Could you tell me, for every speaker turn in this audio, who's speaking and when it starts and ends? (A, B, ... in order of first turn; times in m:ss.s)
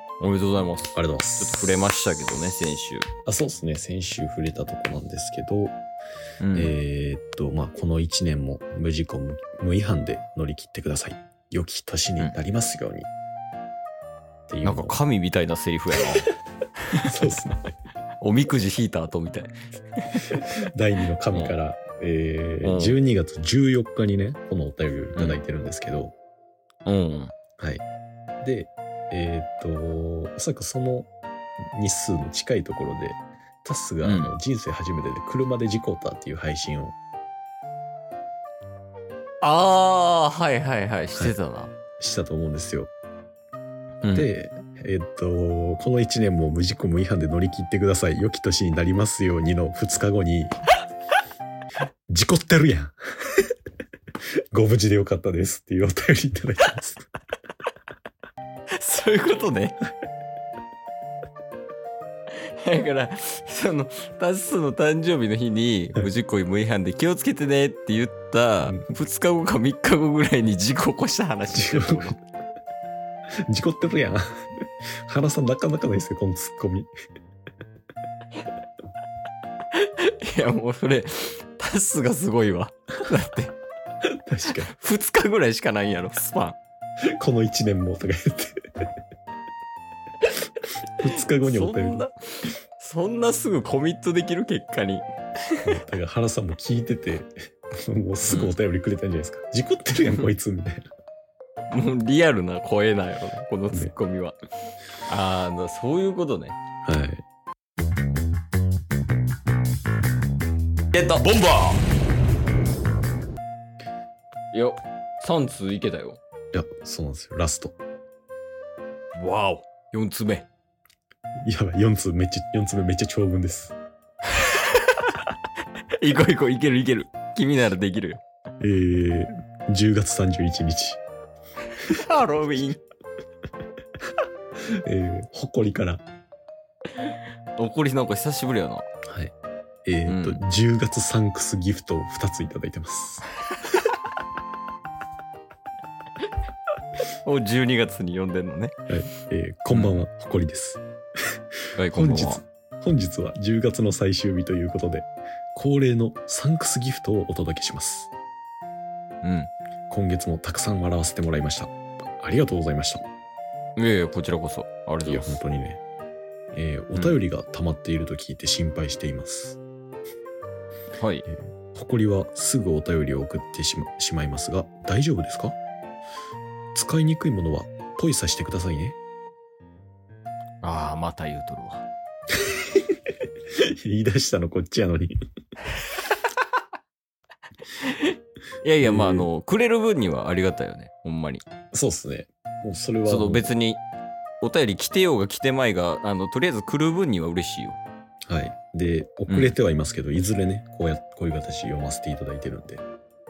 0:00.2-0:03.1 A
0:00.9-0:01.7 B
0:03.2-0:05.8 B
0:06.4-0:06.7 A
0:06.5-0:13.1 B
0:14.5-0:15.0 B
0:14.6-0:16.3 A
0:17.0-0:17.7 B
0:18.2-0:20.3 A
0:20.3-0:26.1 B
0:21.3-0:21.6 A
0:22.6-0:23.0 A
0:25.1-0:25.4 A
0:26.8-0:27.3 A
0:27.6-0:27.8 B
0:28.4-0:31.1 B
0:31.7-0:37.0 B
0:34.0-0:34.3 A
0:39.4-0:41.7 A
0:42.0-0:42.9 B
0:44.0-0:44.3 A
0:44.1-0:50.6 B
0:52.1-0:53.4 B
0:54.5-0:57.0 B
0:58.8-0:59.8 A
1:02.6-1:12.2 A
1:11.5-1:12.2 B
1:13.5-1:14.4 B
1:15.1-1:16.9 B
1:19.7-1:23.5 A
1:24.0-1:24.7 B
1:24.6-1:26.6 A
1:27.1-1:28.6 B
1:31.0-1:32.0 B
1:31.3-1:35.6 A
1:35.6-1:37.3 B
1:37.8-1:40.8 B
1:38.2-1:38.6 A
1:41.7-1:44.4 A
1:45.0-1:46.6 A
1:46.8-1:47.2 B
1:50.9-1:51.8 A
1:54.5-1:56.2 A
1:56.5-1:57.8 B
1:59.2-2:00.5 A
2:01.4-2:03.8 B
2:04.4-2:05.2 A
2:06.0-2:08.2 A
2:08.6-2:11.0 B
2:11.8-2:12.8 A
2:14.8-2:16.0 B
2:17.0-2:18.8 A
2:19.1-2:19.3 B
2:19.8-2:23.2 B
2:20.1-2:20.4 A
2:27.2-2:28.7 A
2:28.9-2:30.8 B
2:29.7-2:30.0 A
2:31.8-2:32.4 A
2:31.9-2:38.1 B
2:39.2-2:39.5 A
2:39.9-2:43.0 B
2:43.8-2:45.4 A
2:45.0-2:45.8 B
2:46.5-2:49.6 B
2:46.9-2:47.2 A
2:51.0-2:51.2 A
2:51.3-2:55.6 B
2:56.7-2:59.0 B
3:00.6-3:01.8 A
3:02.5-3:02.9 B
3:03.5-3:05.2 B
3:07.8-3:11.4 A
3:08.8-3:09.3 B
3:11.7-3:13.5 B
3:13.0-3:13.8 A
3:14.4-3:17.8 A
3:18.3-3:22.8 B
3:19.3-3:19.6 A